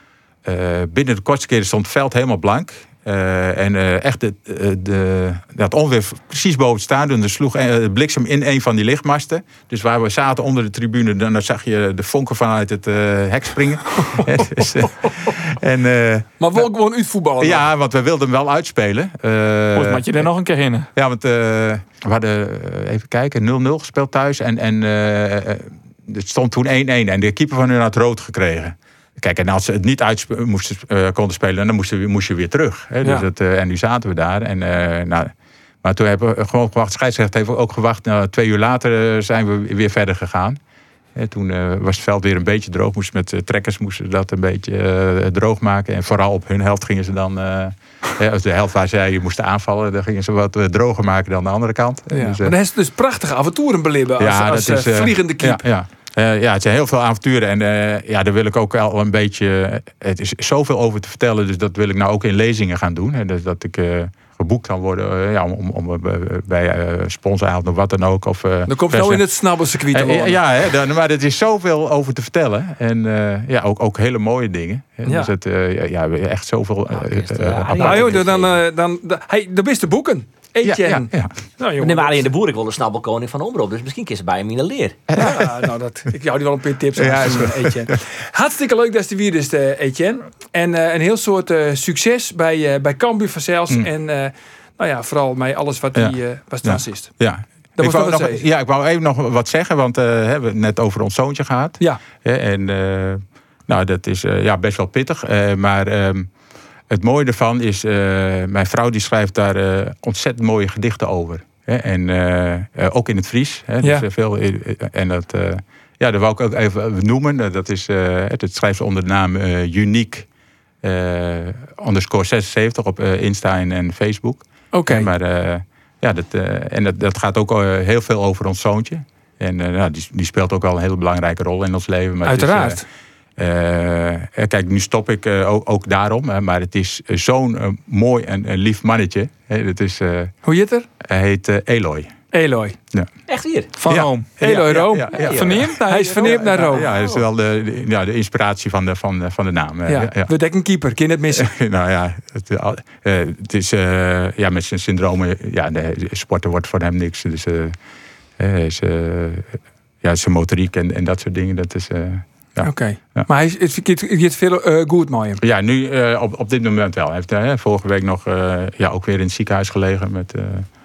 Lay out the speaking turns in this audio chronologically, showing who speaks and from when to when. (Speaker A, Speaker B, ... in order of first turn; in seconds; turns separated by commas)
Speaker A: 0.4-16.7, Speaker B: 16.4-17.6, Speaker A: 17.4-20.3, Speaker C: 19.7-20.9, Speaker A: 20.9-40.6, Speaker A: 41.1-52.5, Speaker B: 52.1-55.6, Speaker A: 54.2-69.2, Speaker B: 68.7-70.4, Speaker A: 69.9-78.2, Speaker B: 75.0-75.3, Speaker D: 76.9-78.6, Speaker B: 77.7-82.3, Speaker A: 80.6-81.3, Speaker D: 81.8-85.0, Speaker A: 85.1-85.6, Speaker B: 85.2-97.1, Speaker A: 86.9-87.9, Speaker A: 95.9-106.3, Speaker B: 97.8-98.4, Speaker A: 106.9-120.3, Speaker A: 120.8-132.8, Speaker B: 124.7-125.1, Speaker B: 132.2-132.8, Speaker A: 133.4-140.3, Speaker B: 140.4-140.9, Speaker A: 141.0-142.2, Speaker B: 142.3-142.8, Speaker D: 143.3-143.7, Speaker C: 143.8-144.3, Speaker A: 143.9-145.7, Speaker B: 144.4-146.9, Speaker C: 145.1-146.8, Speaker D: 145.2-145.6, Speaker A: 146.3-150.3, Speaker B: 149.9-151.5, Speaker A: 151.3-157.8, Speaker A: 158.4-163.2, Speaker B: 162.6-165.4, Speaker A: 165.4-170.7